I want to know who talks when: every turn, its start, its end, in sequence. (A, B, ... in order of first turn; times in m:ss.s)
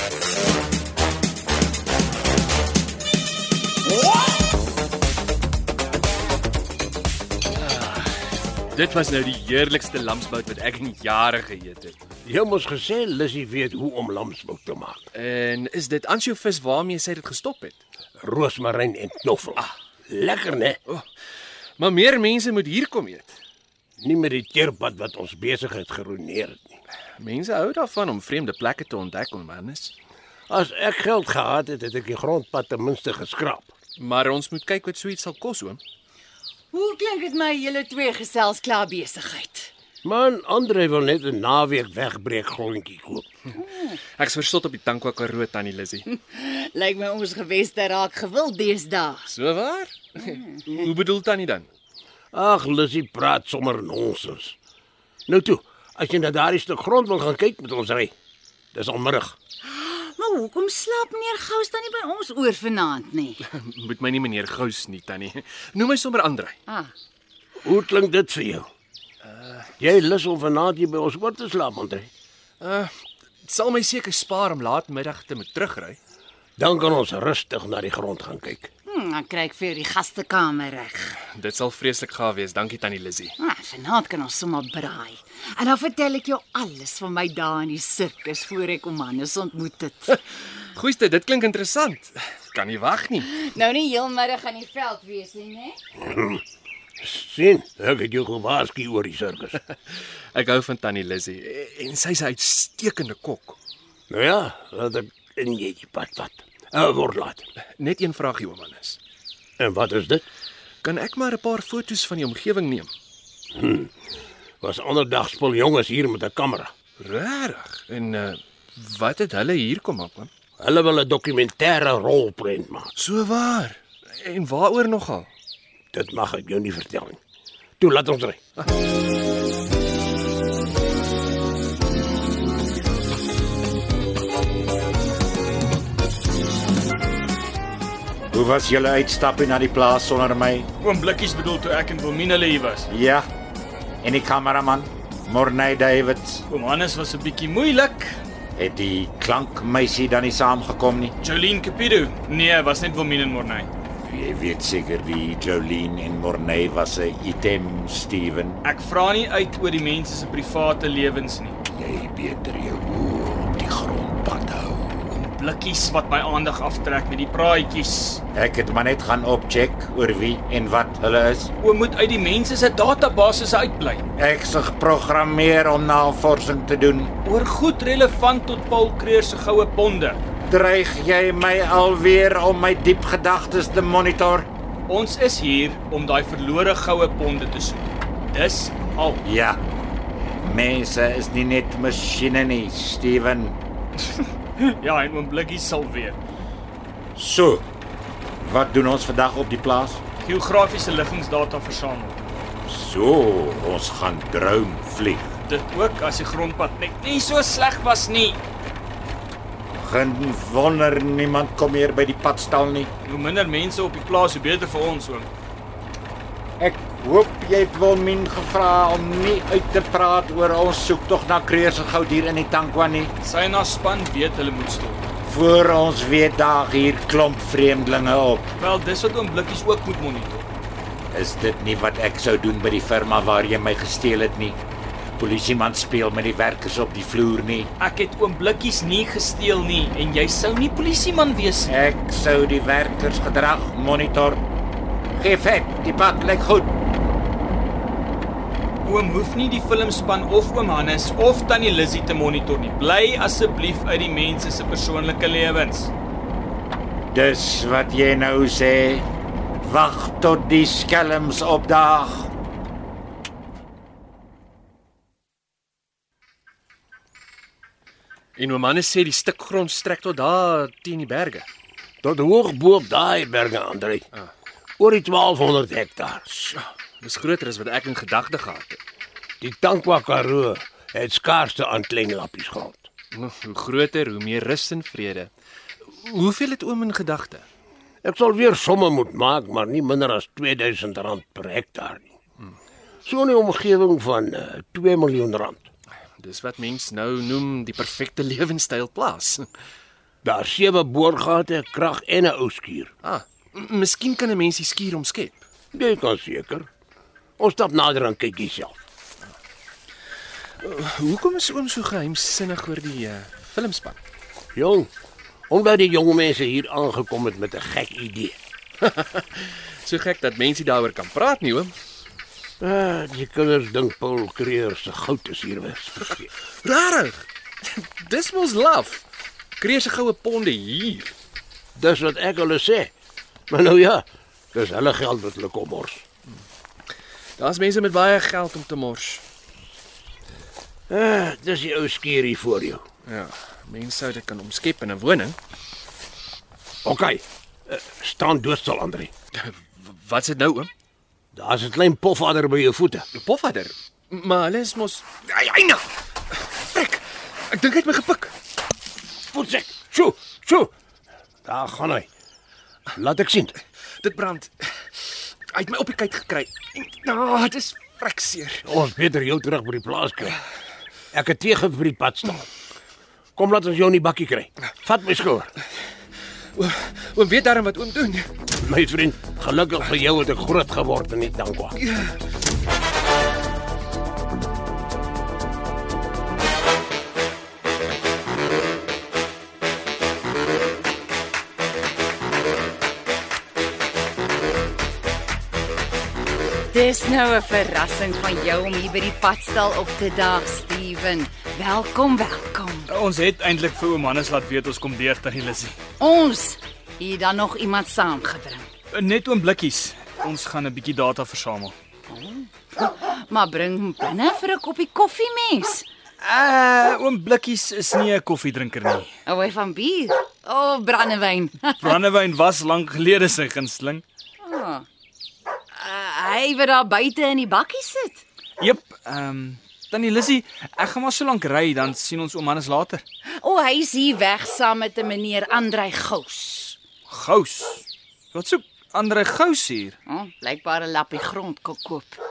0:07.6-0:08.1 A
0:08.7-0:12.0 A
0:12.2-0:15.0 B
0:15.1-0:17.8 A
0:18.2-0:20.8 B
0:21.8-0:23.3 A
0:24.0-0:26.7 B
0:27.2-0:29.9 A
0:30.5-0:33.7 B
0:34.0-0:35.8 A
0:36.7-0:39.7 C
0:40.0-0:43.2 B
0:44.2-0:46.0 A
0:46.1-0:49.3 C
0:49.3-0:51.7 A
0:52.3-0:54.6 B
0:55.3-0:58.1 B
0:58.7-0:59.3 B
0:59.6-1:03.4 C
1:03.4-1:06.6 A
1:06.7-1:06.9 C
1:07.6-1:08.7 B
1:09.3-1:09.6 A
1:09.8-1:12.1 B
1:12.6-1:12.9 A
1:13.4-1:16.0 A
1:16.6-1:18.7 B
1:18.9-1:21.2 C
1:21.3-1:23.3 A
1:23.4-1:30.2 C
1:30.7-1:33.3 A
1:33.3-1:35.8 C
1:36.0-1:36.4 B
1:37.0-1:39.6 B
1:40.3-1:43.6 A
1:44.1-1:47.4 B
1:47.8-1:49.0 A
1:49.6-1:50.2 B
1:50.8-1:52.9 A
1:53.5-1:53.9 B
1:54.6-1:56.7 B
1:57.0-2:00.3 A
2:00.6-2:02.9 B
2:03.0-2:05.3 A
2:05.9-2:07.2 B
2:07.8-2:08.4 B
2:18.3-2:20.7 D
2:20.8-2:22.9 E
2:22.9-2:23.3 D
2:24.0-2:26.4 D
2:26.5-2:28.2 E
2:28.6-2:31.1 D
2:31.2-2:33.7 E
2:34.0-2:38.6 D
2:38.6-2:41.6 E
2:41.7-2:45.0 D
2:45.1-2:48.2 E
2:48.3-2:51.5 D
2:51.6-2:54.0 E
2:54.2-2:57.1 D
2:57.2-3:00.2 E
3:00.5-3:04.5 D
3:04.9-3:09.2 E
3:09.2-3:09.6 D
3:10.4-3:13.6 D
3:14.1-3:16.2 E
3:17.1-3:17.6 D
3:18.4-3:20.0 D
3:20.2-3:22.2 E
3:22.6-3:25.3 D
3:25.5-3:28.4 E
3:29.8-3:32.9 D
3:33.0-3:35.3 E
3:36.6-3:43.1 D
3:43.2-3:45.1 E
3:45.2-3:48.5 D
3:48.6-3:50.4 E
3:51.1-3:54.6 D
3:55.2-3:57.7 D
3:57.8-4:01.7 E
4:01.7-4:04.4 D
4:05.2-4:06.7 D
4:08.8-4:15.9 E
4:17.1-4:19.1 D
4:19.6-4:22.3 D
4:28.4-4:31.4 A
4:32.0-4:34.0 B
4:34.8-4:36.2 B
4:36.3-4:38.8 A
4:39.4-4:42.8 B
4:43.1-4:45.3 A
4:45.9-4:47.4 A
4:48.0-4:52.1 B
4:53.0-4:55.6 B
4:56.2-4:59.5 A
5:00.2-5:02.9 B
5:03.0-5:05.4 A
5:05.7-5:06.7 B
5:07.4-5:08.8 B
5:10.6-5:14.0 A
5:14.5-5:14.9 B
5:15.5-5:18.4 B
5:18.8-5:21.7 A
5:22.6-5:26.3 B
5:26.6-5:29.0 A
5:29.6-5:31.1 A
5:31.8-5:32.9 B
5:33.5-5:36.0 B
5:37.4-5:39.2 A
5:40.9-5:42.8 B
5:43.0-5:45.4 A
5:46.8-5:49.1 B
5:49.4-5:50.7 A
5:51.3-5:53.0 B
5:53.1-5:55.9 A
5:56.4-5:58.3 A
5:59.3-6:00.7 B
6:01.4-6:02.1 B
6:02.9-6:03.6 B
6:04.0-6:08.6 A
6:08.6-6:10.4 B
6:11.1-6:12.4 B
6:13.4-6:15.5 B
6:16.5-6:18.3 A
6:18.6-6:21.8 B
6:21.8-6:22.2 A
6:36.7-6:42.9 C
6:42.9-6:45.8 E
6:46.0-6:48.7 C
6:48.9-6:51.7 E
6:52.1-6:55.9 C
6:56.2-6:59.1 E
6:59.3-7:02.0 C
7:01.8-7:04.0 E
7:04.4-7:04.8 C
7:05.7-7:08.2 C
7:08.6-7:13.0 E
7:13.4-7:16.8 C
7:17.1-7:20.0 E
7:20.1-7:22.2 C